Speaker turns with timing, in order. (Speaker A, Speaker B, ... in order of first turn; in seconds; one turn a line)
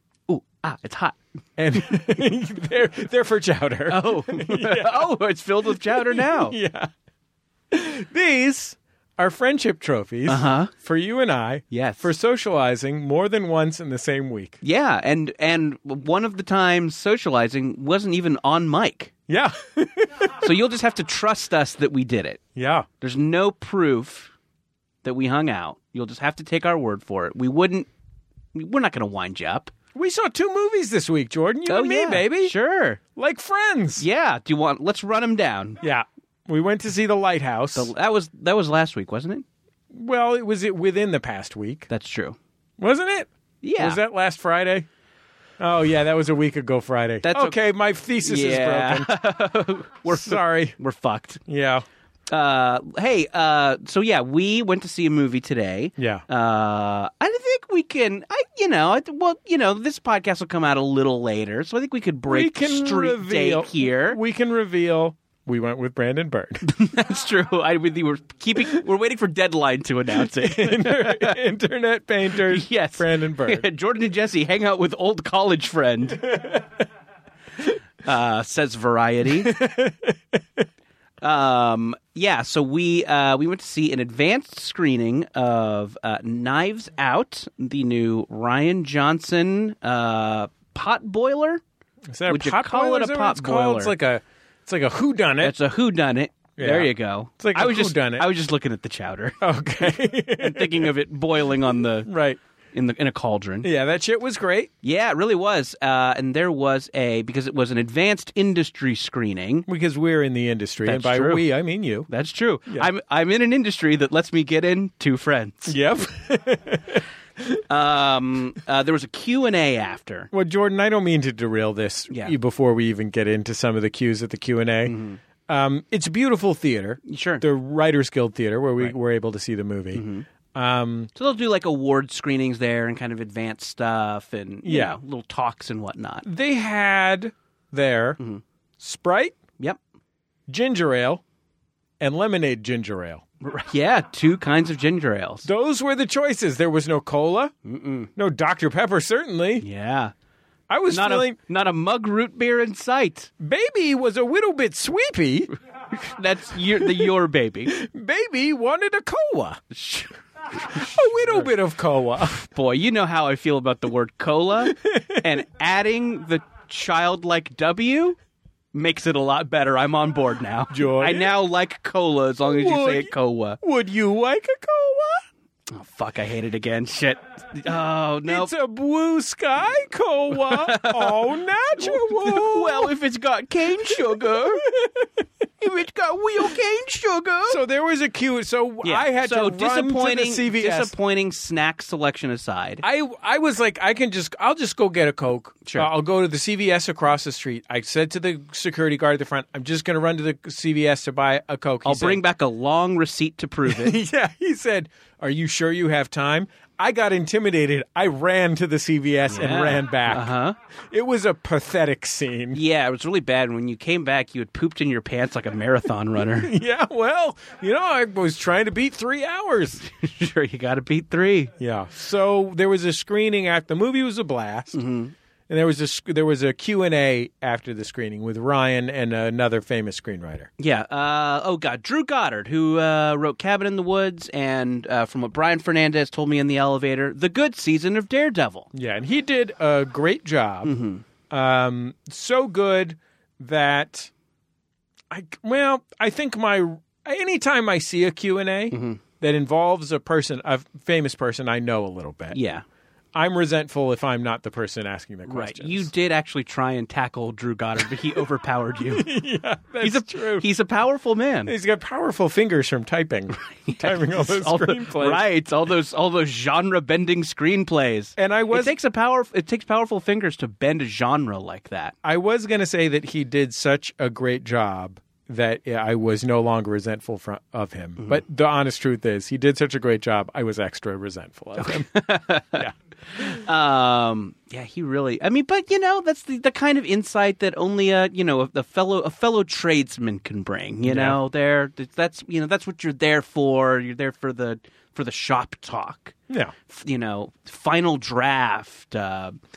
Speaker A: 0.3-1.2
Speaker B: 1.6-5.1
Speaker A: 3.9-6.6
Speaker B: 5.7-6.9
Speaker B: 7.7-14.6
Speaker A: 10.3-10.7
Speaker A: 11.7-12.1
Speaker A: 14.6-19.1
Speaker B: 19.3-20.4
Speaker A: 20.4-22.4
Speaker B: 22.6-22.9
Speaker A: 23.0-24.3
Speaker A: 25.0-27.9
Speaker A: 28.5-29.7
Speaker B: 29.9-32.5
Speaker A: 31.7-33.0
Speaker B: 33.2-34.1
Speaker A: 34.0-35.8
Speaker B: 35.8-37.9
Speaker A: 37.8-39.5
Speaker B: 39.9-41.9
Speaker A: 41.9-42.4
Speaker B: 42.8-44.9
Speaker A: 43.6-44.0
Speaker B: 45.6-49.1
Speaker A: 47.2-47.6
Speaker A: 48.2-51.4
Speaker B: 50.1-50.8
Speaker B: 51.5-51.9
Speaker A: 52.3-64.2
Speaker B: 56.0-56.2
Speaker B: 62.3-66.6
Speaker A: 66.7-71.4
Speaker B: 70.3-73.6
Speaker A: 72.5-76.3
Speaker B: 76.2-76.7
Speaker A: 78.0-79.6
Speaker B: 79.5-80.1
Speaker A: 81.2-91.6
Speaker B: 92.1-95.6
Speaker A: 92.3-93.9
Speaker A: 95.4-102.1
Speaker B: 96.6-98.3
Speaker B: 99.4-100.9
Speaker B: 102.1-102.4
Speaker A: 102.7-103.7
Speaker B: 103.6-104.7
Speaker A: 104.8-109.7
Speaker B: 109.7-112.1
Speaker A: 110.8-111.5
Speaker A: 112.1-115.8
Speaker B: 115.7-117.6
Speaker A: 117.7-120.3
Speaker B: 120.3-125.0
Speaker A: 122.1-122.3
Speaker A: 124.8-125.2
Speaker B: 125.5-131.1
Speaker A: 127.1-127.4
Speaker A: 129.9-130.2
Speaker A: 131.2-136.2
Speaker B: 134.7-135.0
Speaker B: 136.2-138.2
Speaker B: 138.8-139.4
Speaker B: 140.5-141.2
Speaker B: 142.0-143.2
Speaker A: 143.4-145.5
Speaker B: 145.4-147.5
Speaker A: 147.7-148.1
Speaker B: 148.2-149.7
Speaker A: 149.6-150.1
Speaker B: 150.7-151.4
Speaker A: 150.9-153.3
Speaker B: 153.4-155.5
Speaker A: 155.9-157.7
Speaker B: 156.8-157.1
Speaker B: 157.7-159.6
Speaker A: 159.7-161.5
Speaker B: 160.7-162.5
Speaker A: 162.4-168.2
Speaker B: 164.7-165.3
Speaker A: 168.7-173.6
Speaker B: 170.7-171.3
Speaker B: 172.5-175.2
Speaker A: 175.7-178.5
Speaker B: 178.3-182.9
Speaker A: 180.3-181.2
Speaker A: 181.8-184.7
Speaker B: 184.6-185.1
Speaker A: 185.6-187.6
Speaker B: 187.5-190.9
Speaker A: 188.8-192.8
Speaker B: 192.8-202.2
Speaker A: 201.8-204.0
Speaker B: 203.7-210.3
Speaker A: 209.3-210.6
Speaker B: 210.9-212.6
Speaker A: 212.5-216.5
Speaker B: 216.4-219.8
Speaker A: 219.9-221.5
Speaker B: 221.6-224.8
Speaker A: 224.7-225.1
Speaker B: 225.5-230.5
Speaker A: 230.6-238.7
Speaker B: 238.7-240.8
Speaker A: 240.6-241.0
Speaker B: 241.3-244.1
Speaker B: 245.1-252.4
Speaker A: 248.7-249.0
Speaker A: 252.3-252.6
Speaker B: 253.1-255.9
Speaker A: 255.3-259.1
Speaker B: 258.9-260.5
Speaker A: 259.8-261.5
Speaker B: 261.5-265.2
Speaker A: 263.5-271.9
Speaker B: 268.2-268.8
Speaker B: 272.0-281.9
Speaker A: 281.6-296.1
Speaker B: 290.8-291.2
Speaker A: 296.7-299.4